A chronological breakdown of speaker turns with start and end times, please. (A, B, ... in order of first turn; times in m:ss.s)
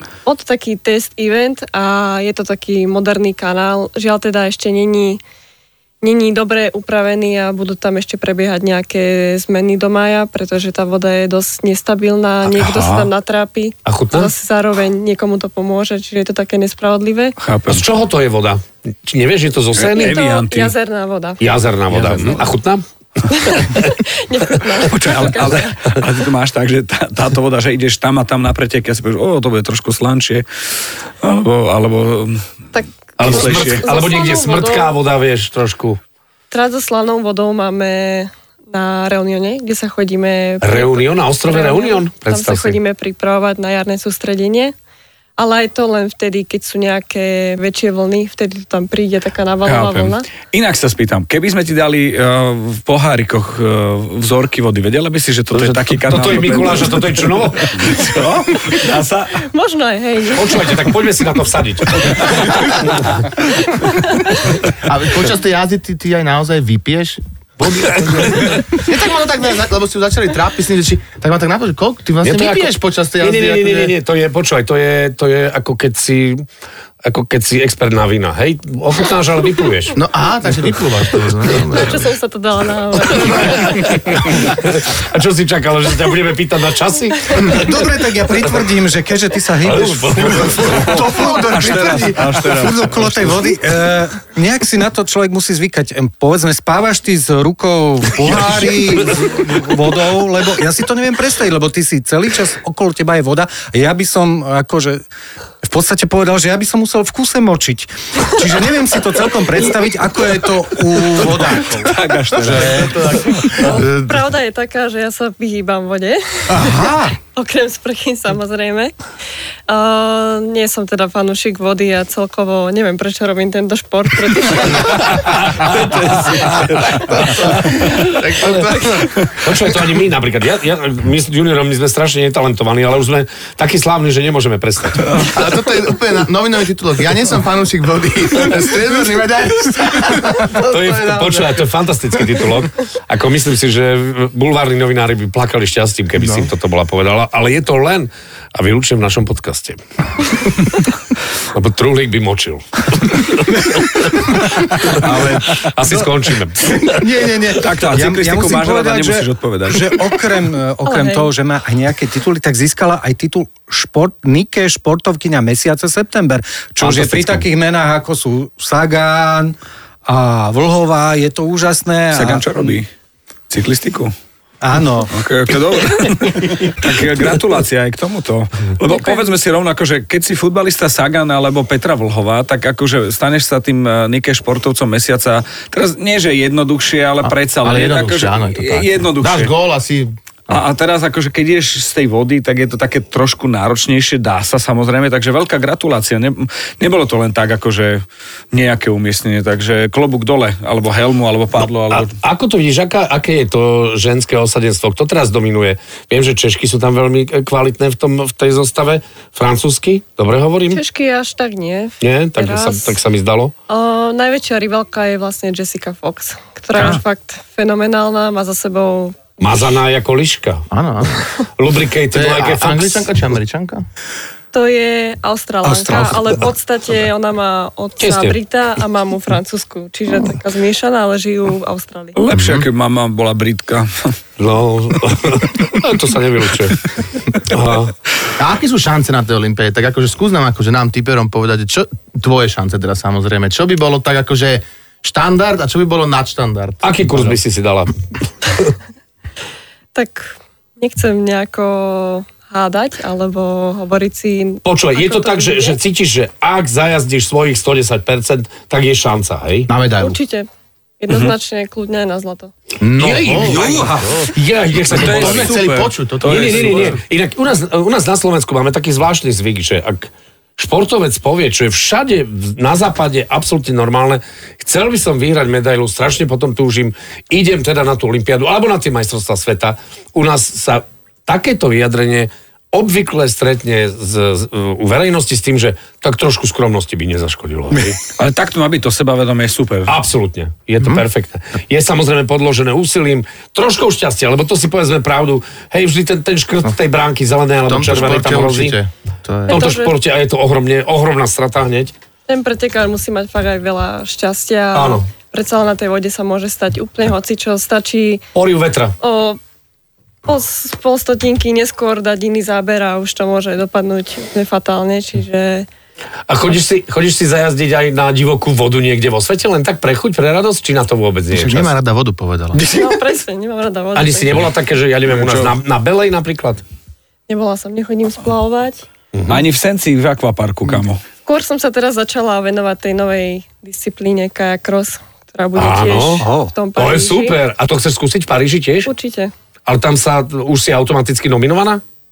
0:00.2-0:05.2 A
0:06.0-0:17.4 A
0:12.5-0:13.1 B
0:13.8-0:14.3 C
0:17.4-0:17.8 B
0:17.7-0:20.2 C
0:19.8-0:20.7 B
0:20.0-0:21.4 A
0:21.4-0:22.8 C
0:21.9-0:22.4 B
0:23.3-0:25.8 A
0:23.5-0:23.9 C
0:24.9-0:30.4 B
0:31.2-0:32.4 B
0:32.7-0:34.9 A
0:33.2-0:36.0 C
0:33.2-0:33.8 B
0:36.5-0:44.7 A
0:40.6-0:42.8 C
0:45.4-0:50.3 A
0:49.6-0:59.3 B
0:55.5-0:58.1 C
0:59.4-1:00.6 A
1:00.3-1:03.1 C
1:03.8-1:04.4 A
1:04.8-1:07.2 D
1:07.6-1:08.7 C
1:08.4-1:13.9 D
1:12.2-1:16.4 C
1:17.0-1:20.0 C
1:20.0-1:22.0 D
1:20.5-1:21.6 C
1:21.7-1:23.9 A
1:23.0-1:27.9 C
1:27.4-1:45.0 E
1:29.6-1:30.9 C
1:30.6-1:33.5 B
1:30.8-1:32.2 D
1:38.3-1:38.6 C
1:45.6-1:52.9 E
1:51.4-1:53.2 B
1:52.4-1:54.1 D
1:53.6-1:58.9 A
1:56.5-1:57.2 E
1:59.7-2:05.5 A
2:06.1-2:06.6 A
2:07.1-2:09.7 D
2:08.3-2:15.2 C
2:15.2-2:21.7 D
2:20.5-2:29.8 C
2:26.2-2:26.5 D
2:31.5-2:37.0 C
2:34.8-2:36.1 E
2:35.0-2:35.7 B
2:36.6-2:49.5 E
2:37.6-2:40.2 B
2:40.8-2:41.3 A
2:46.8-2:47.4 C
2:50.0-2:52.7 E
2:52.1-2:52.9 B
2:53.5-2:54.1 B
2:54.6-2:55.1 E
2:55.1-3:09.5 B
2:58.9-2:59.3 A
3:07.2-3:10.5 D
3:10.5-3:22.1 B
3:21.9-3:30.8 C
3:30.7-3:33.0 A
3:32.0-3:33.5 C
3:33.7-3:39.3 A
3:39.4-3:40.6 C
3:40.7-3:41.3 D
3:41.6-3:43.1 C
3:42.1-3:43.8 D
3:44.5-3:52.2 A
3:45.6-3:46.4 E
3:48.0-3:48.4 C
3:52.1-3:54.2 B
3:52.3-3:52.6 D
3:54.4-3:57.9 C
3:56.9-3:57.4 B
3:58.4-4:07.4 D
4:06.8-4:07.9 C
4:09.9-4:15.8 A
4:14.6-4:19.7 C
4:19.7-4:20.2 D
4:20.0-4:20.5 A
4:21.0-4:22.5 A
4:22.8-4:24.3 D
4:23.0-4:25.7 C
4:23.4-4:24.0 B
4:23.5-4:24.0 E
4:24.9-4:27.0 B
4:24.9-4:27.0 D
4:26.2-4:48.0 C
4:48.2-4:49.9 B
4:49.9-4:58.7 C
4:57.6-4:59.7 D
4:59.5-4:59.9 A
4:59.5-5:01.9 C
5:02.3-5:08.2 A
5:04.7-5:05.0 C
5:08.3-5:08.9 C
5:09.0-5:09.4 A
5:10.2-5:15.7 A
5:16.3-5:21.7 C
5:21.3-5:22.6 D
5:22.6-5:24.5 A
5:22.7-5:23.0 C
5:24.0-5:26.6 C
5:25.1-5:25.5 B
5:27.3-5:28.8 A
5:29.1-5:29.4 C
5:29.3-5:31.0 B
5:31.2-5:37.4 A
5:35.6-5:38.9 C
5:36.2-5:36.5 E
5:38.8-5:39.3 A
5:39.7-5:41.8 C